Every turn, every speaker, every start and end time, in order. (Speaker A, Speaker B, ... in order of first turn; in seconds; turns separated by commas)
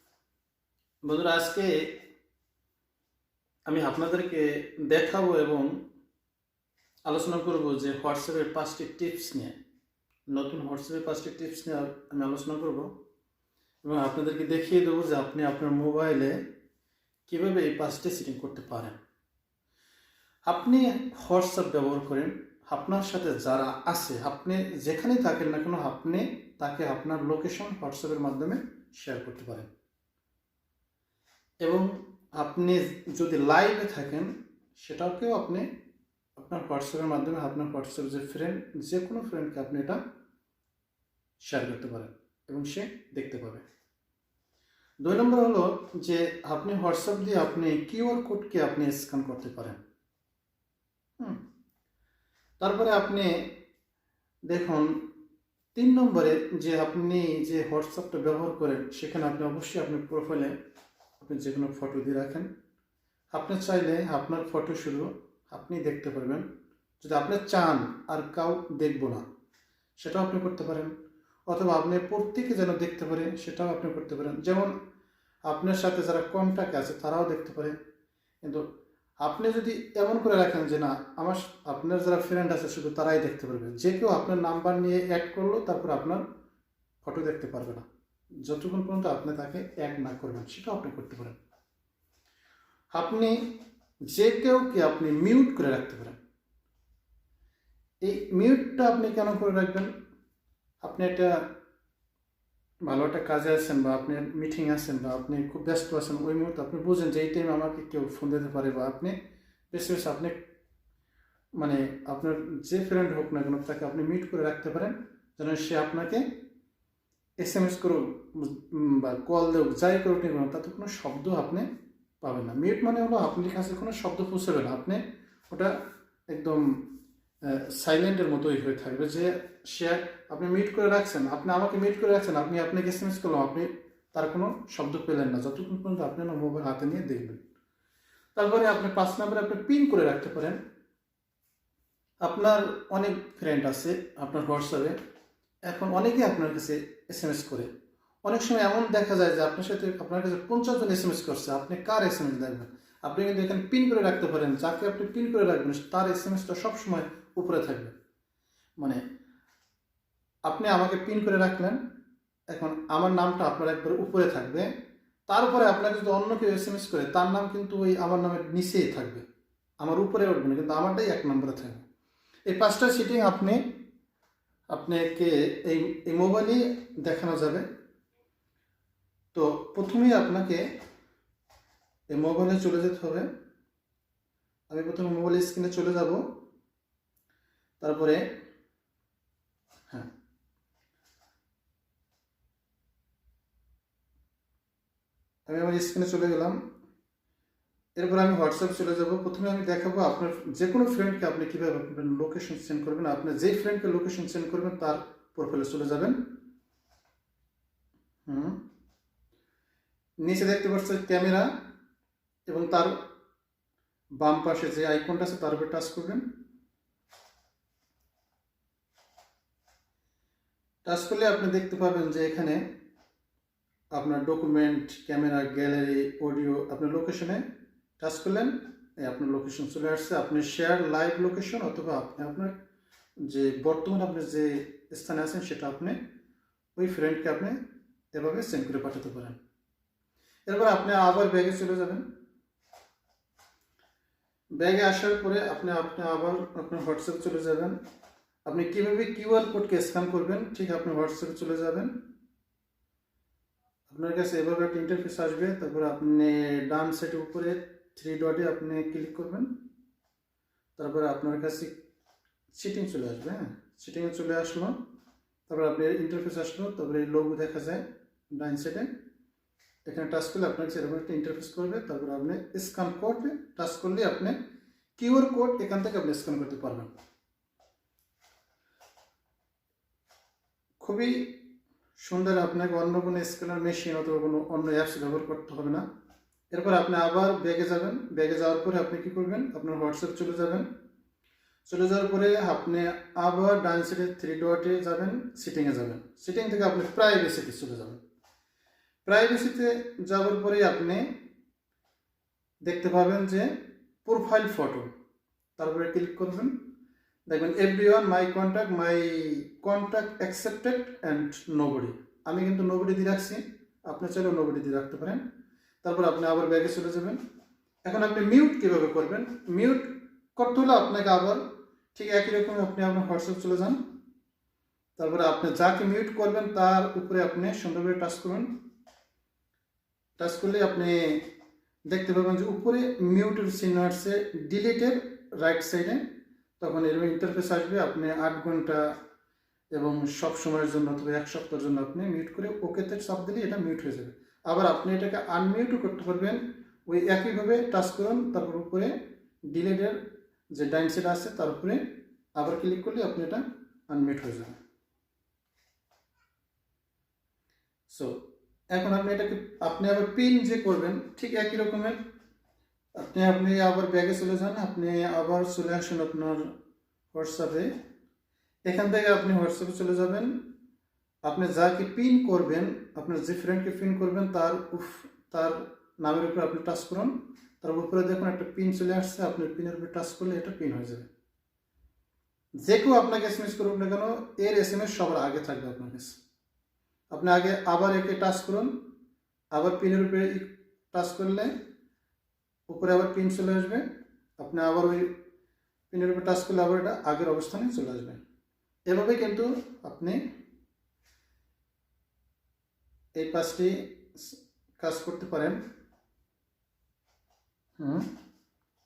Speaker A: 1.0-2.0, Speaker A: 3.7-5.8, Speaker A: 7.1-9.6, Speaker A: 10.3-12.9, Speaker A: 13.8-16.4, Speaker A: 17.3-19.0, Speaker A: 20.5-29.7, Speaker A: 31.6-35.7, Speaker A: 36.4-40.0, Speaker A: 41.4-43.7, Speaker A: 45.0-49.8, Speaker A: 52.6-53.5, Speaker A: 54.5-55.0, Speaker A: 55.8-60.6, Speaker A: 61.2-62.5, Speaker A: 63.3-66.5, Speaker A: 67.0-69.2, Speaker A: 70.0-71.0, Speaker A: 71.5-74.8, Speaker A: 75.5-77.8, Speaker A: 78.4-78.7, Speaker A: 79.2-86.2, Speaker A: 87.0-87.9, Speaker A: 88.4-91.4, Speaker A: 92.9-93.6, Speaker A: 94.1-96.2, Speaker A: 98.0-99.9, Speaker A: 100.8-101.5, Speaker A: 102.8-109.2, Speaker A: 109.7-110.4, Speaker A: 111.6-116.3, Speaker A: 117.4-121.7, Speaker A: 122.2-125.8, Speaker A: 126.3-126.8, Speaker A: 127.4-137.4, Speaker A: 138.3-140.6, Speaker A: 142.2-144.9, Speaker A: 145.7-147.7, Speaker A: 148.2-157.9, Speaker A: 160.5-161.8, Speaker A: 162.5-164.7, Speaker A: 165.3-169.3, Speaker A: 169.8-171.8, Speaker A: 172.5-173.8, Speaker A: 174.7-177.7, Speaker A: 179.3-180.7, Speaker A: 182.1-183.3, Speaker A: 184.7-186.3, Speaker A: 187.8-188.2, Speaker A: 195.5-196.6, Speaker A: 198.0-206.2, Speaker A: 208.3-208.6, Speaker A: 210.2-211.5, Speaker A: 212.5-213.0, Speaker A: 214.2-216.3, Speaker A: 220.8-222.6, Speaker A: 223.9-227.4, Speaker A: 228.0-232.6, Speaker A: 233.2-236.0, Speaker A: 236.8-237.6, Speaker A: 238.1-239.4, Speaker A: 240.5-242.1, Speaker A: 244.5-247.8, Speaker A: 248.4-251.9, Speaker A: 253.9-259.5, Speaker A: 260.8-261.8, Speaker A: 262.5-264.8, Speaker A: 265.5-268.9, Speaker A: 269.9-274.4, Speaker A: 275.0-276.9, Speaker A: 280.8-285.8, Speaker A: 286.5-290.7, Speaker A: 291.7-298.0, Speaker A: 299.1-301.1, Speaker A: 302.7-304.9, Speaker A: 305.6-306.6, Speaker A: 307.3-315.2, Speaker A: 315.8-317.2, Speaker A: 317.9-323.8, Speaker A: 325.0-328.5, Speaker A: 330.2-331.2, Speaker A: 331.9-336.0, Speaker A: 336.6-338.9, Speaker A: 339.7-348.9, Speaker A: 349.5-351.8, Speaker A: 352.4-354.6, Speaker A: 357.9-362.0, Speaker A: 363.0-366.5, Speaker A: 367.1-367.7, Speaker A: 368.7-370.4, Speaker A: 371.2-381.1, Speaker A: 382.6-386.2, Speaker A: 387.1-388.7, Speaker A: 389.5-391.5, Speaker A: 392.7-393.9, Speaker A: 394.4-395.1, Speaker A: 395.9-398.2, Speaker A: 398.9-400.2, Speaker A: 403.2-405.6, Speaker A: 407.8-408.1